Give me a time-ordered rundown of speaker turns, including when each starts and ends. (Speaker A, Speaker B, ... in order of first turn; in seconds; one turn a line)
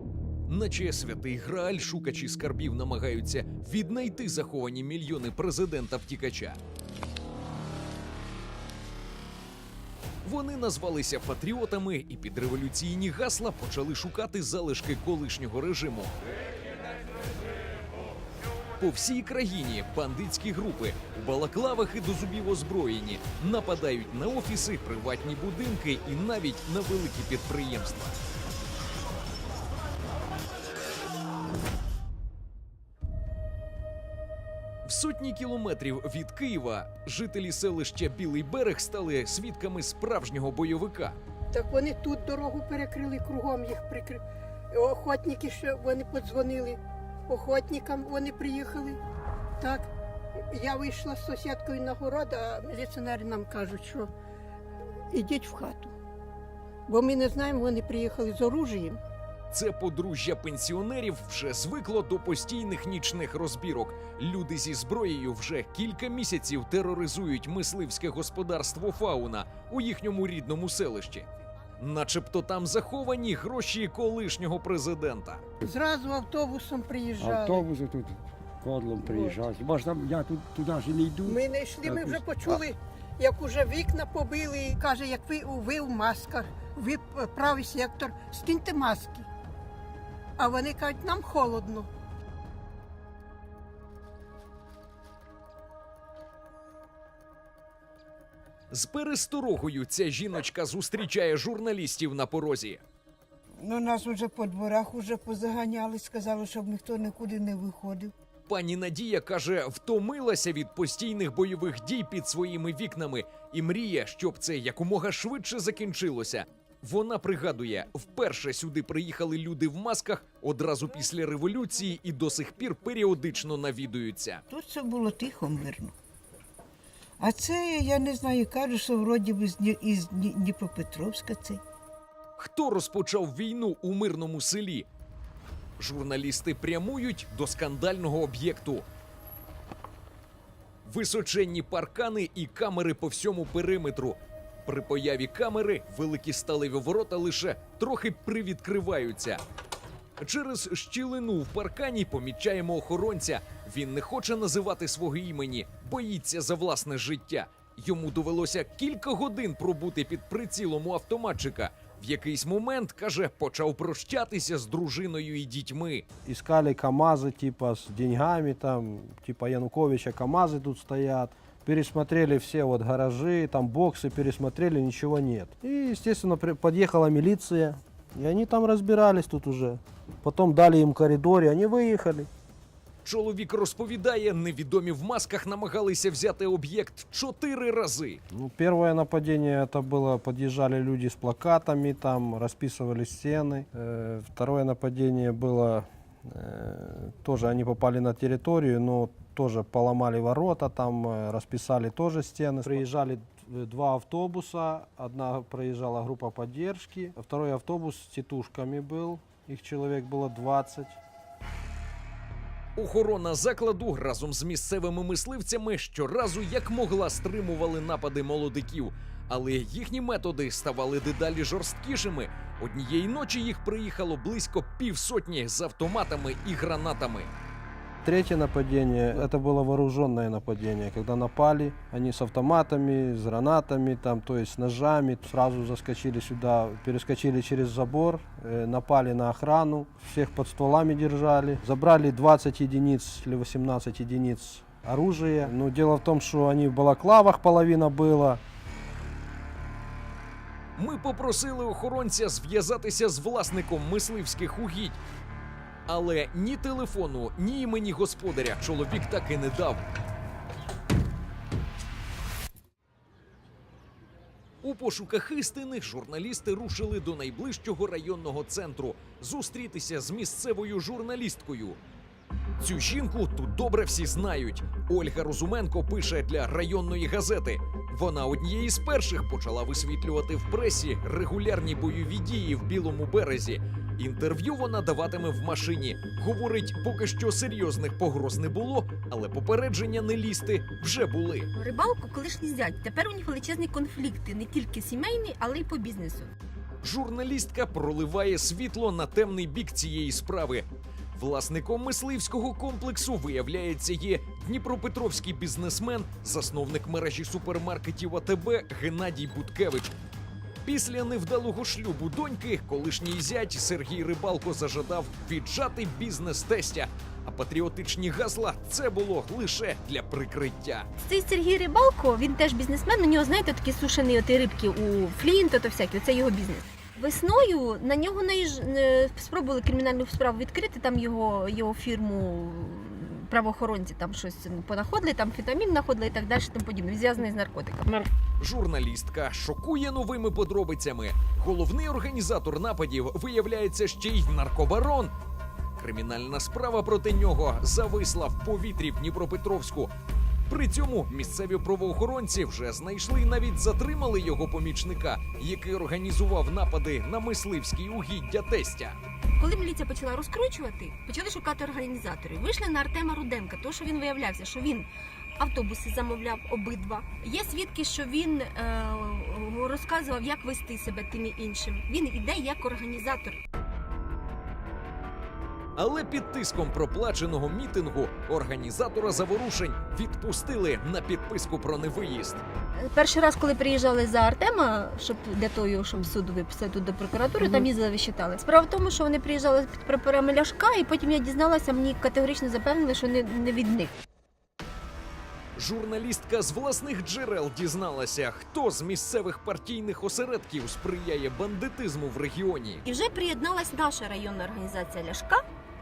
Speaker A: 0.5-6.6
Speaker A: 10.2-16.1
Speaker A: 18.8-28.1
Speaker A: 34.9-41.2
Speaker B: 41.5-44.2
Speaker B: 44.7-49.0
Speaker B: 49.6-49.9
Speaker B: 50.5-54.1
Speaker B: 55.1-55.9
Speaker B: 56.9-59.0
Speaker A: 59.5-71.2
Speaker A: 71.8-75.4
Speaker B: 75.7-77.7
Speaker C: 77.2-82.7
Speaker B: 79.0-79.4
Speaker B: 81.3-89.2
Speaker B: 90.4-91.9
Speaker A: 98.7-102.8
Speaker D: 106.5-108.0
Speaker A: 108.5-124.4
Speaker D: 124.5-125.9
Speaker D: 127.6-128.6
Speaker D: 129.9-131.5
Speaker A: 132.4-134.9
Speaker A: 135.8-138.8
Speaker A: 140.8-149.4
Speaker A: 150.2-166.0
Speaker E: 166.2-182.3
Speaker A: 183.0-188.2
Speaker E: 188.3-211.0
Speaker A: 212.8-227.3
Speaker E: 228.0-248.4
Speaker A: 250.8-255.0
Speaker A: 255.9-259.8
Speaker A: 264.6-271.8
Speaker A: 272.6-291.5
Speaker F: 291.5-296.3
Speaker A: 296.8-309.9
Speaker A: 310.6-320.9
Speaker F: 321.0-338.1
Speaker A: 338.4-345.1
Speaker A: 345.8-349.9
Speaker A: 350.5-358.9
Speaker F: 359.4-373.4
Speaker A: 375.8-382.4
Speaker F: 382.8-393.9
Speaker A: 395.6-402.8
Speaker F: 402.8-405.4